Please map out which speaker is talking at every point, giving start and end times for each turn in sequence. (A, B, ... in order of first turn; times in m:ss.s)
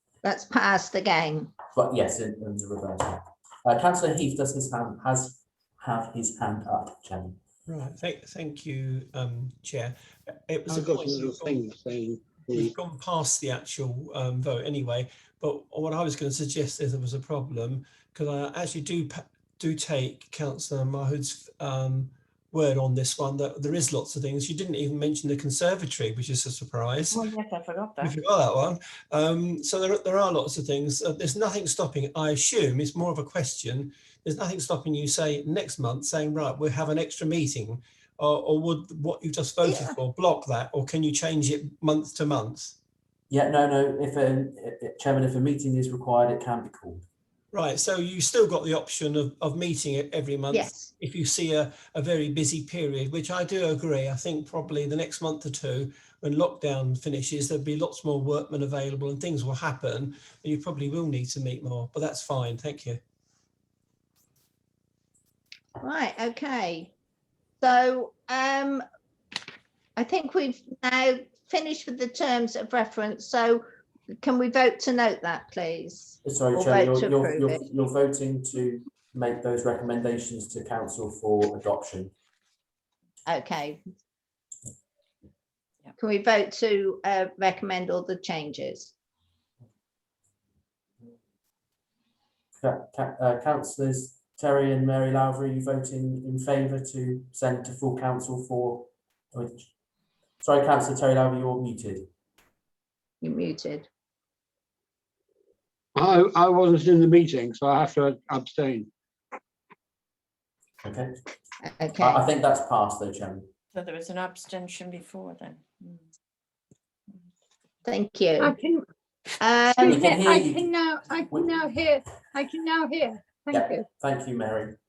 0:00.2-0:01.5 A
0:01.7-0:07.4 B
0:07.7-0:11.6 C
0:10.7-0:12.7 D
0:12.5-0:27.3 C
0:27.1-0:28.1 E
0:28.0-0:42.8 C
0:43.3-0:47.0 B
0:47.5-1:03.0 C
0:50.5-0:50.9 A
1:05.8-1:06.9 A
1:07.6-1:08.8 A
1:10.0-1:13.6 A
1:14.2-1:17.6 A
1:16.2-1:22.1 B
1:23.2-1:23.8 A
1:26.0-1:28.9 A
1:32.6-1:39.7 B
1:40.4-1:42.1 B
1:43.2-1:43.9 A
1:45.9-1:48.9 D
1:50.8-1:51.1 B
1:51.6-1:52.3 A
1:52.0-1:53.5 B
1:53.7-1:56.0 E
1:57.8-1:58.5 A
1:58.4-1:58.8 F
1:59.4-2:00.1 A
1:59.8-2:03.8 F
1:59.8-2:00.7 B
2:01.3-2:01.6 B
2:03.5-2:04.7 B